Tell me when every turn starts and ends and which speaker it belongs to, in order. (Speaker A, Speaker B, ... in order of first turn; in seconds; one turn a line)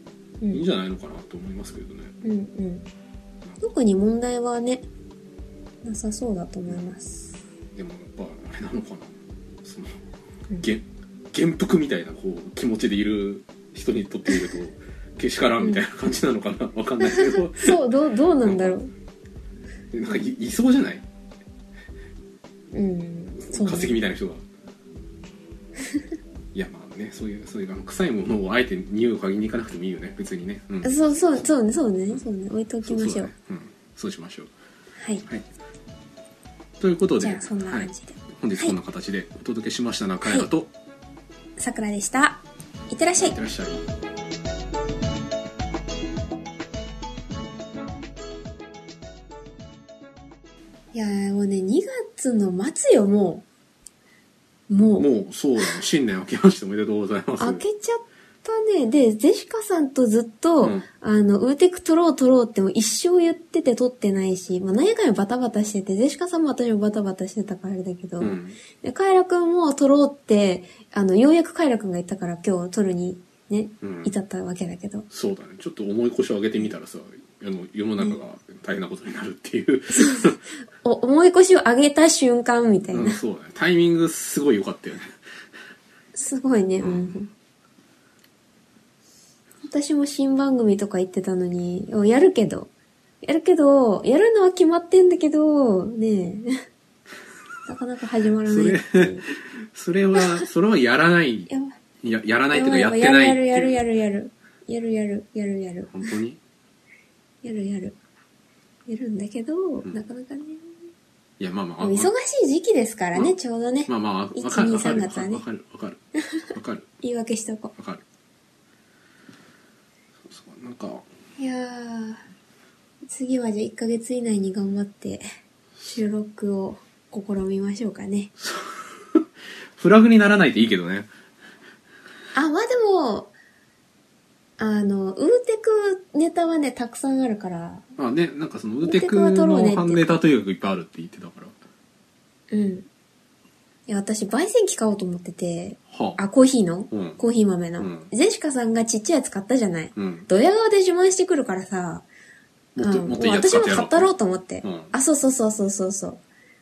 Speaker A: 0.5-2.1
Speaker B: 2.2-2.9
Speaker B: 3.6-4.9
Speaker B: 5.8-7.4
Speaker A: 7.7-9.9
Speaker A: 10.6-17.8
Speaker B: 17.0-18.9
Speaker A: 18.4-18.8
Speaker A: 19.9-21.0
Speaker B: 22.7-24.0
Speaker A: 23.4-24.4
Speaker A: 26.5-31.5
Speaker B: 30.8-33.3
Speaker A: 32.8-34.5
Speaker B: 35.0-35.2
Speaker A: 36.8-40.7
Speaker B: 37.2-38.8
Speaker B: 41.6-43.4
Speaker A: 43.2-43.8
Speaker B: 50.9-53.5
Speaker B: 54.7-55.1
Speaker A: 55.0-57.6
Speaker B: 57.4-75.1
Speaker A: 60.6-60.9
Speaker A: 68.2-68.6
Speaker A: 73.8-74.1
Speaker A: 75.1-80.4
Speaker B: 79.9-83.2
Speaker A: 82.9-85.2
Speaker B: 86.1-87.3
Speaker A: 86.8-87.2
Speaker B: 89.6-92.7
Speaker B: 93.2-96.5
Speaker B: 97.7-99.3
Speaker A: 98.5-101.5
Speaker B: 101.5-101.7
Speaker A: 102.0-103.8
Speaker B: 102.5-106.1
Speaker A: 105.9-106.4
Speaker B: 107.4-108.0
Speaker B: 108.9-110.6
Speaker A: 111.4-112.1
Speaker B: 111.8-115.4
Speaker A: 113.9-116.9
Speaker B: 117.0-117.7
Speaker A: 117.8-118.0
Speaker A: 120.2-121.0
Speaker B: 121.4-122.2
Speaker B: 123.1-125.2
Speaker B: 125.8-128.3
Speaker A: 128.4-131.1
Speaker B: 132.3-133.3
Speaker B: 134.6-137.9
Speaker A: 138.0-141.5
Speaker B: 138.8-140.1
Speaker B: 142.5-142.9
Speaker B: 143.9-152.1
Speaker A: 145.9-146.2
Speaker A: 146.9-147.2
Speaker A: 147.8-148.1
Speaker A: 149.9-150.3
Speaker A: 152.8-154.1
Speaker B: 152.8-156.2
Speaker A: 154.6-154.9